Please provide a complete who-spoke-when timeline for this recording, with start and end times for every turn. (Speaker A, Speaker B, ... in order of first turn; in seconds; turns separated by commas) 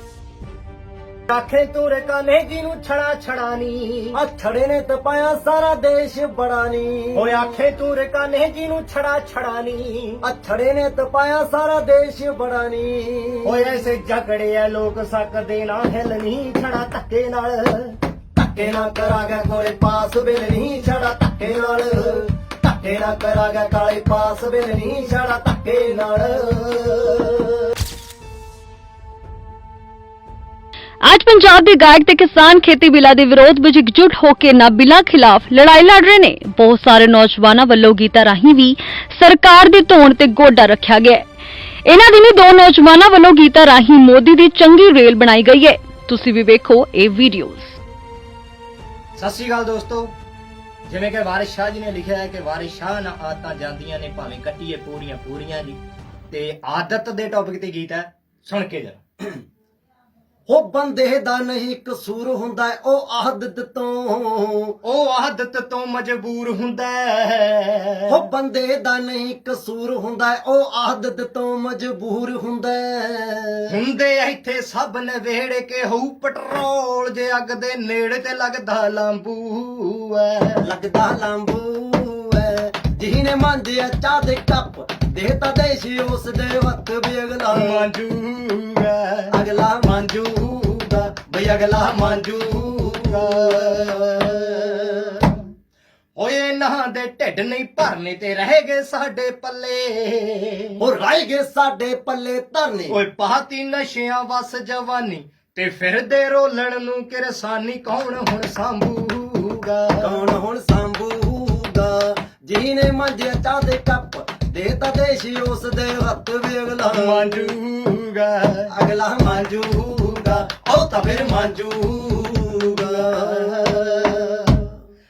Speaker A: 1.3-4.1, Speaker B: 4.1-7.3, Speaker A: 7.1-10.2, Speaker B: 10.2-13.6, Speaker A: 13.4-18.0, Speaker B: 18.3-27.6, Speaker C: 31.1-41.3, Speaker C: 41.8-47.8, Speaker A: 49.2-50.1, Speaker A: 50.9-55.8, Speaker A: 56.3-59.0, Speaker B: 60.5-64.8, Speaker A: 64.8-68.3, Speaker B: 68.1-73.7, Speaker A: 73.7-80.6, Speaker B: 80.6-87.9, Speaker A: 87.5-89.3, Speaker B: 89.3-93.7, Speaker A: 91.2-95.4, Speaker A: 96.2-100.8, Speaker B: 100.8-103.0, Speaker A: 102.9-110.2, Speaker B: 110.0-117.5, Speaker A: 116.9-118.7, Speaker B: 118.7-124.6, Speaker A: 120.5-123.9